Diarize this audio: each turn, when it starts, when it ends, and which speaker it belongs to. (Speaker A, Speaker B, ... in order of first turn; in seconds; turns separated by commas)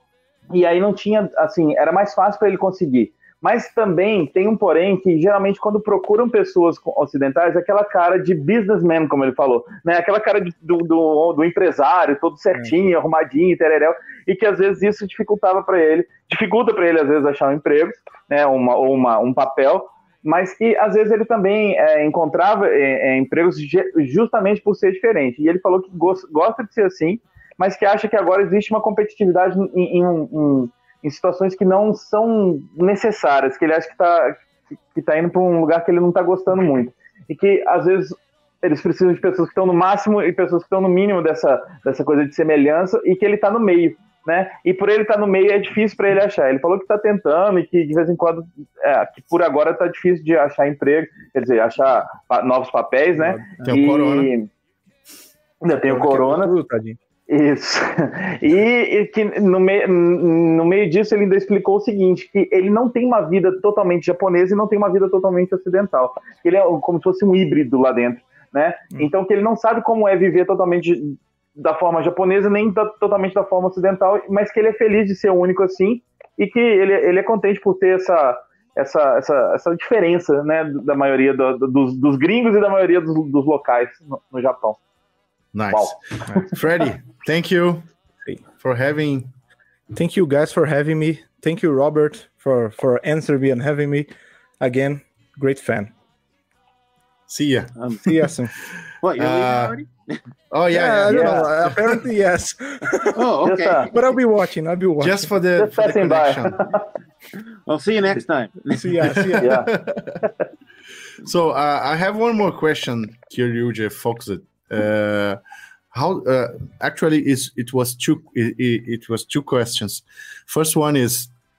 Speaker A: 0.5-34.4, Speaker A: 35.0-54.5, Speaker B: 53.1-53.5, Speaker C: 53.6-54.3, Speaker A: 55.6-56.5, Speaker B: 55.9-57.0, Speaker A: 57.3-84.8, Speaker C: 85.5-87.9, Speaker A: 85.7-86.5, Speaker C: 88.6-89.3, Speaker B: 89.9-94.1, Speaker B: 94.6-95.9, Speaker C: 97.3-97.7, Speaker D: 97.8-98.1, Speaker B: 98.1-98.5, Speaker C: 98.7-99.8, Speaker D: 99.0-100.2, Speaker C: 100.5-102.1, Speaker B: 100.7-103.2, Speaker A: 101.1-101.5, Speaker D: 103.1-104.0, Speaker A: 103.4-103.9, Speaker B: 103.9-105.3, Speaker C: 105.0-106.6, Speaker A: 105.6-106.9, Speaker D: 107.7-109.0, Speaker B: 108.7-109.6, Speaker C: 109.0-110.2, Speaker A: 109.4-109.7, Speaker A: 110.2-110.5, Speaker C: 111.2-115.4, Speaker C: 115.9-121.3